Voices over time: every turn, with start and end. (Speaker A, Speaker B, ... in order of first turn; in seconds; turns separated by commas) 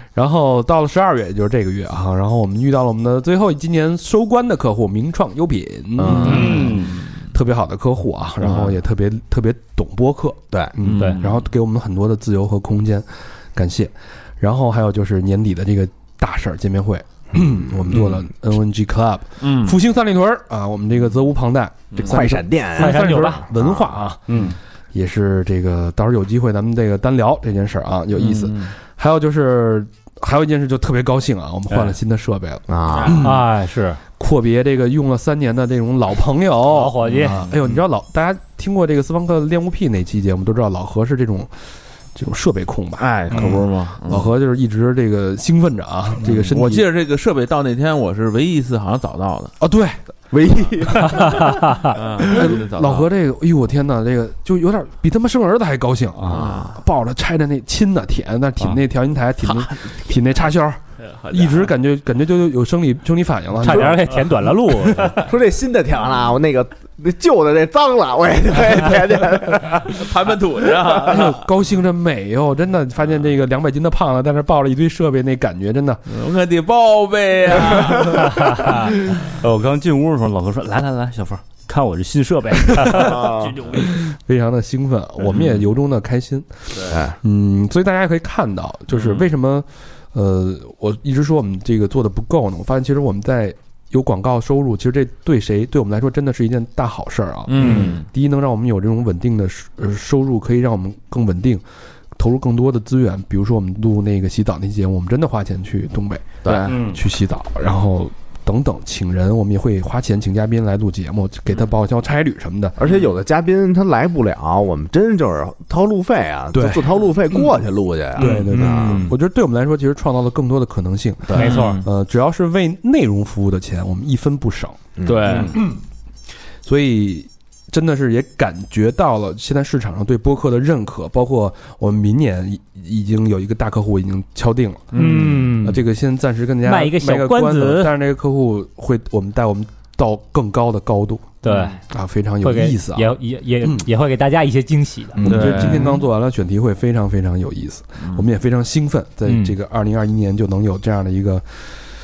Speaker A: 0.1-24.4, Speaker B: 6.0-6.5, Speaker C: 6.0-6.3, Speaker D: 6.2-6.9, Speaker E: 6.3-6.8, Speaker C: 8.4-8.7, Speaker C: 10.8-11.4, Speaker C: 17.9-18.2, Speaker C: 19.4-19.8, Speaker C: 21.9-22.2, Speaker B: 22.1-24.0, Speaker E: 22.8-23.4, Speaker D: 24.3-24.6, Speaker A: 24.9-33.5, Speaker C: 28.1-28.7, Speaker B: 32.7-33.2, Speaker C: 32.9-33.2, Speaker E: 33.2-34.0, Speaker A: 34.2-41.5, Speaker E: 36.7-37.4, Speaker C: 37.1-37.8, Speaker A: 42.2-43.5, Speaker C: 43.0-44.3, Speaker A: 44.1-46.9, Speaker C: 46.2-49.5, Speaker A: 49.6-50.0, Speaker B: 50.3-51.5, Speaker C: 51.9-53.1, Speaker A: 52.2-60.8, Speaker B: 56.3-56.7, Speaker C: 56.3-56.7, Speaker C: 61.0-61.7, Speaker A: 61.3-64.2, Speaker E: 63.6-65.3, Speaker B: 65.3-70.0, Speaker C: 69.8-71.5, Speaker A: 71.0-76.0, Speaker C: 76.1-78.9, Speaker D: 79.3-83.2, Speaker B: 82.9-83.6, Speaker A: 83.9-86.5, Speaker C: 85.3-85.7, Speaker B: 86.9-87.2, Speaker A: 87.2-101.6, Speaker C: 88.9-89.3, Speaker C: 97.5-98.1, Speaker A: 102.2-112.8, Speaker B: 106.4-106.7, Speaker C: 106.5-107.0, Speaker B: 112.8-119.1, Speaker C: 112.8-113.1, Speaker A: 116.5-116.8, Speaker A: 118.2-124.8, Speaker C: 118.2-119.1, Speaker B: 121.3-121.7, Speaker E: 121.3-121.8, Speaker C: 121.3-121.8, Speaker B: 125.0-125.5, Speaker C: 125.0-125.6, Speaker A: 126.6-134.9, Speaker E: 134.9-135.8, Speaker C: 134.9-135.4, Speaker A: 135.6-141.3, Speaker E: 136.6-137.9, Speaker E: 141.4-141.8, Speaker A: 141.9-143.9, Speaker E: 142.4-145.2, Speaker B: 145.2-145.8, Speaker A: 145.2-151.4, Speaker C: 145.2-145.9, Speaker E: 149.2-149.6